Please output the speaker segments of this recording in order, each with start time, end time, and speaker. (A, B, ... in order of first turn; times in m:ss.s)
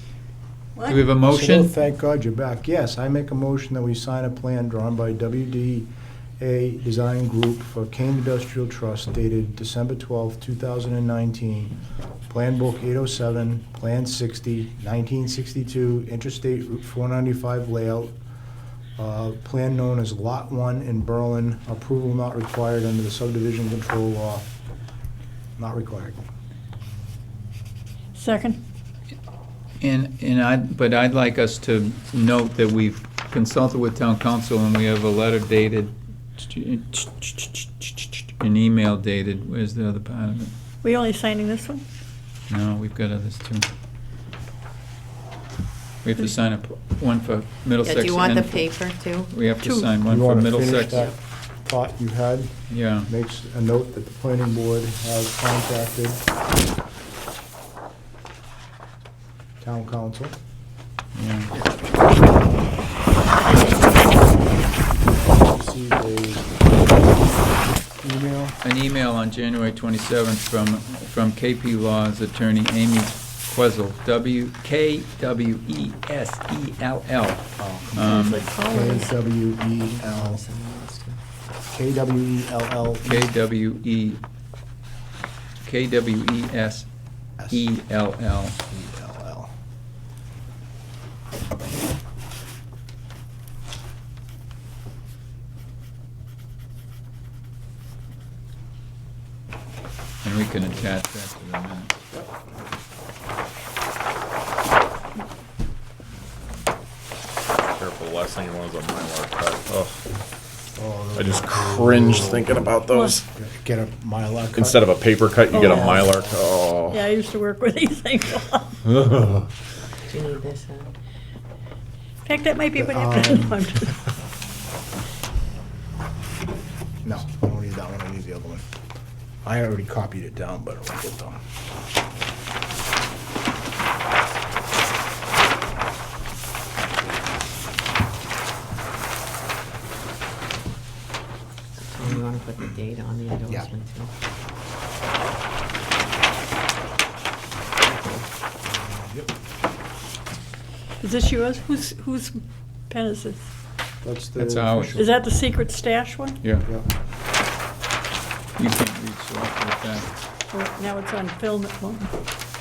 0:00.8-0:01.0 A
0:00.9-0:01.7 B
0:01.3-0:11.7 C
0:12.3-0:18.2 C
0:19.0-0:24.5 C
0:25.6-0:26.2 C
0:28.2-0:28.6 A
0:29.8-0:40.5 B
0:40.8-0:41.8 A
0:42.5-0:43.7 B
0:46.0-0:51.1 B
0:47.8-0:49.3 D
0:49.6-0:49.9 A
0:49.9-0:56.2 C
0:50.8-0:51.2 D
0:52.7-0:53.1 B
0:59.6-1:00.4 C
1:01.2-1:01.5 B
1:05.1-1:07.4 C
1:07.9-1:08.6 C
1:08.6-1:18.4 B
1:17.6-1:20.4 C
1:18.1-1:19.2 A
1:19.8-1:21.2 D
1:21.7-1:23.3 C
1:23.0-1:24.2 B
1:25.6-1:26.9 B
1:27.4-1:27.7 C
1:27.4-1:28.6 B
1:28.7-1:29.5 C
1:40.2-1:42.0 B
1:47.8-1:50.0 E
1:50.8-1:52.8 C
1:51.2-1:53.2 E
1:52.9-1:53.2 A
1:53.3-1:54.8 C
1:54.6-1:57.0 E
1:55.5-1:56.1 A
1:55.5-1:56.5 C
1:56.9-1:58.8 A
1:58.9-1:59.5 E
2:00.0-2:01.0 D
2:02.2-2:04.0 A
2:02.8-2:03.7 C
2:07.0-2:08.6 C
2:09.4-2:11.4 C
2:21.8-2:24.1 D
2:27.8-2:28.3 D
2:28.7-2:29.3 C
2:31.0-2:33.5 A
2:34.0-2:35.0 C
2:34.4-2:35.1 B
2:35.0-2:36.5 A
2:36.4-2:36.7 B
2:38.6-2:40.2 B
2:40.5-2:42.1 A